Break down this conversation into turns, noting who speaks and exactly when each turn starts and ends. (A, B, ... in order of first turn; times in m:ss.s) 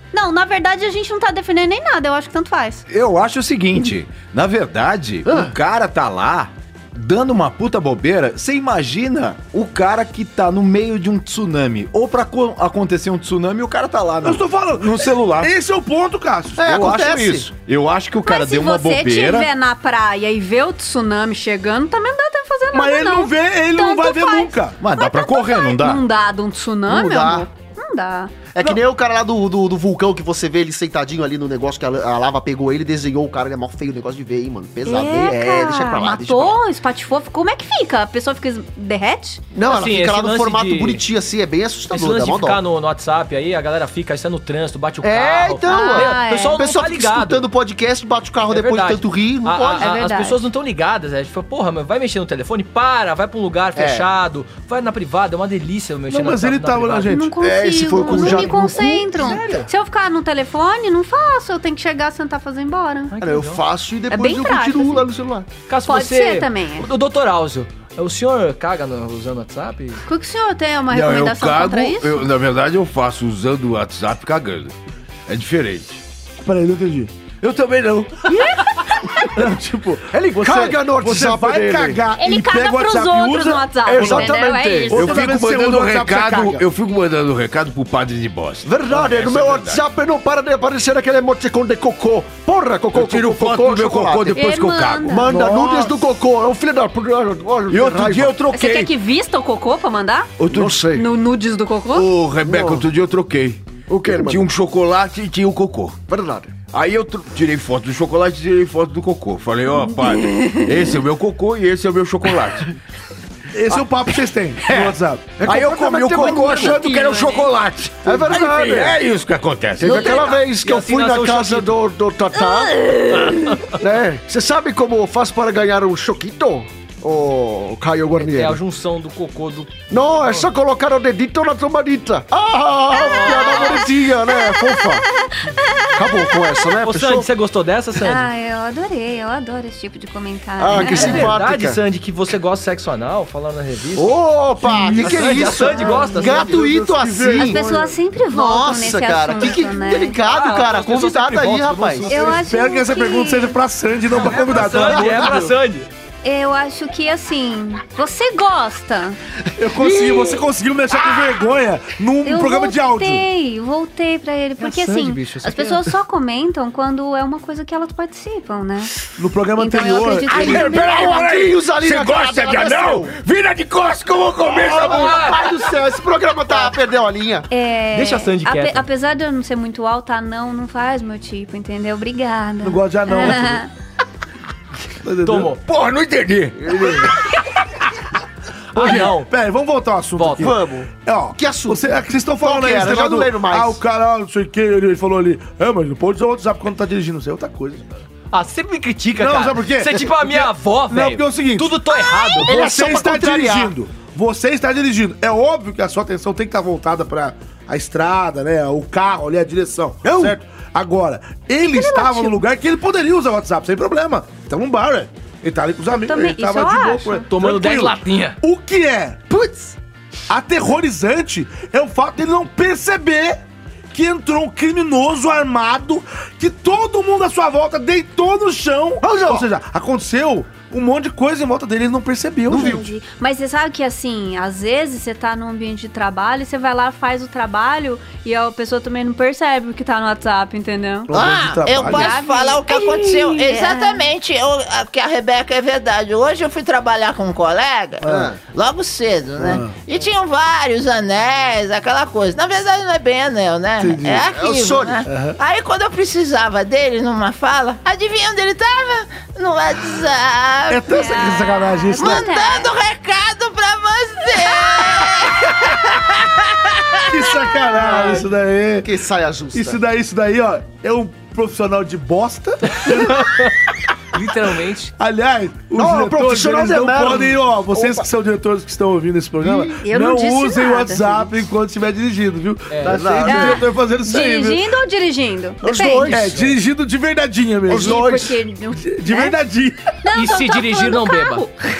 0:00.1-0:02.8 A
0:02.9-0:15.5 B
0:05.3-0:05.5 C
0:14.2-0:16.9 D
0:16.6-0:17.5 C
0:16.6-0:19.5 B
0:18.2-0:28.3 A
0:22.7-0:24.8 D
0:24.8-0:26.0 B
0:26.9-0:27.5 C
0:28.5-0:36.6 C
0:34.8-0:39.4 A
0:39.5-0:42.6 C
0:39.6-0:41.0 E
0:41.9-0:47.4 E
0:45.0-0:50.0 C
0:45.7-0:46.6 A
0:48.5-0:57.2 E
0:49.8-0:50.4 A
0:53.8-0:54.0 C
0:56.1-0:57.4 D
0:57.1-1:03.1 A
0:57.4-0:59.7 C
0:57.7-0:58.2 B
0:58.0-0:59.2 D
1:03.1-1:03.6 E
1:03.2-1:05.5 C
1:04.1-1:05.1 A
1:05.7-1:10.0 E
1:05.9-1:06.9 A
1:10.0-1:12.3 A
1:10.9-1:14.7 B
1:15.3-1:16.0 B
1:16.4-1:17.3 D
1:17.4-1:18.5 B
1:19.2-1:24.4 D
1:20.1-1:22.0 C
1:22.2-1:25.2 A
1:23.8-1:25.2 C
1:24.9-1:26.6 D
1:24.9-1:29.8 B
1:28.6-1:34.4 C
1:32.9-1:35.2 B
1:34.3-1:35.3 A
1:35.1-1:38.4 C
1:35.2-1:36.0 D
1:37.7-1:38.9 B
1:38.5-1:40.3 A
1:40.4-1:40.8 B
1:40.5-1:41.1 C
1:40.9-1:42.1 A
1:41.9-1:46.0 B
1:42.4-1:42.9 C
1:43.9-1:44.5 C
1:46.1-1:46.6 C
1:46.7-1:52.7 B
1:50.1-1:50.7 A
1:53.5-1:55.4 D
1:54.7-1:56.8 C
1:55.4-2:00.4 B
1:56.3-1:57.5 A
1:58.0-1:59.0 C
1:59.8-2:03.1 C
1:59.8-2:00.2 A
2:00.3-2:01.7 E
2:02.7-2:03.4 A
2:03.3-2:03.8 E
2:03.7-2:08.6 C
2:08.2-2:10.5 E
2:09.9-2:15.0 C
2:12.9-2:13.9 E
2:15.9-2:17.3 C
2:16.8-2:18.3 E
2:18.0-2:21.3 A
2:20.6-2:21.8 C
2:20.7-2:24.2 E
2:23.9-2:27.6 C
2:24.6-2:28.0 D
2:25.0-2:26.6 E
2:27.3-2:30.5 A
2:28.3-2:32.3 C
2:30.3-2:32.3 E
2:32.0-2:35.5 D
2:32.1-2:33.6 A
2:34.1-2:35.9 E
2:34.8-2:35.3 C
2:36.2-2:39.2 A
2:39.6-2:43.2 D
2:39.8-2:40.4 C
2:42.2-2:48.9 A
2:44.6-2:45.9 E
2:49.2-2:50.6 D
2:49.6-2:51.3 A
2:50.3-2:55.7 B
2:50.3-2:53.2 C
2:54.4-2:57.5 C
2:54.8-2:55.4 E
2:57.5-3:03.7 A
2:57.9-2:58.8 E
3:02.6-3:03.6 D
3:05.0-3:05.5 D
3:05.2-3:05.6 E
3:05.6-3:07.4 B
3:06.6-3:07.1 C
3:08.7-3:18.0 D
3:08.7-3:09.3 E
3:10.2-3:10.5 E
3:10.4-3:11.8 C
3:12.4-3:13.8 C
3:18.3-3:22.5 E
3:19.2-3:21.8 D
3:22.1-3:22.4 A
3:22.4-3:39.2 D
3:22.4-3:23.7 C
3:30.0-3:30.3 C
3:31.6-3:32.4 A
3:36.0-3:37.3 A
3:37.3-3:38.4 E
3:39.3-3:39.7 C
3:40.3-3:43.4 D
3:43.9-3:52.8 D
3:49.0-3:49.4 C
3:52.5-3:52.8 C
3:52.5-4:01.1 A
4:01.1-4:02.2 D
4:01.1-4:20.9 F
4:01.8-4:04.1 A
4:08.0-4:08.3 D
4:08.0-4:08.4 C
4:09.4-4:09.8 D
4:13.8-4:14.3 D
4:14.2-4:15.0 C
4:15.0-4:15.4 D
4:20.7-4:22.3 D
4:20.9-4:22.7 A
4:22.0-4:27.2 F
4:27.1-4:28.9 D
4:27.7-4:28.3 C
4:28.8-4:29.8 C
4:29.5-4:33.5 D
4:32.7-4:33.5 E
4:34.1-4:34.9 E
4:35.0-4:44.7 D
4:35.7-4:38.0 C
4:39.4-4:39.8 C
4:39.8-4:41.4 A
4:42.7-4:43.0 E
4:42.8-4:43.6 C
4:43.2-4:46.2 A
4:45.6-4:46.4 C
4:46.1-4:48.2 D
4:47.7-4:48.4 C
4:47.7-4:49.4 A
4:48.8-4:50.0 D
4:50.0-4:51.6 A
4:50.1-4:51.4 E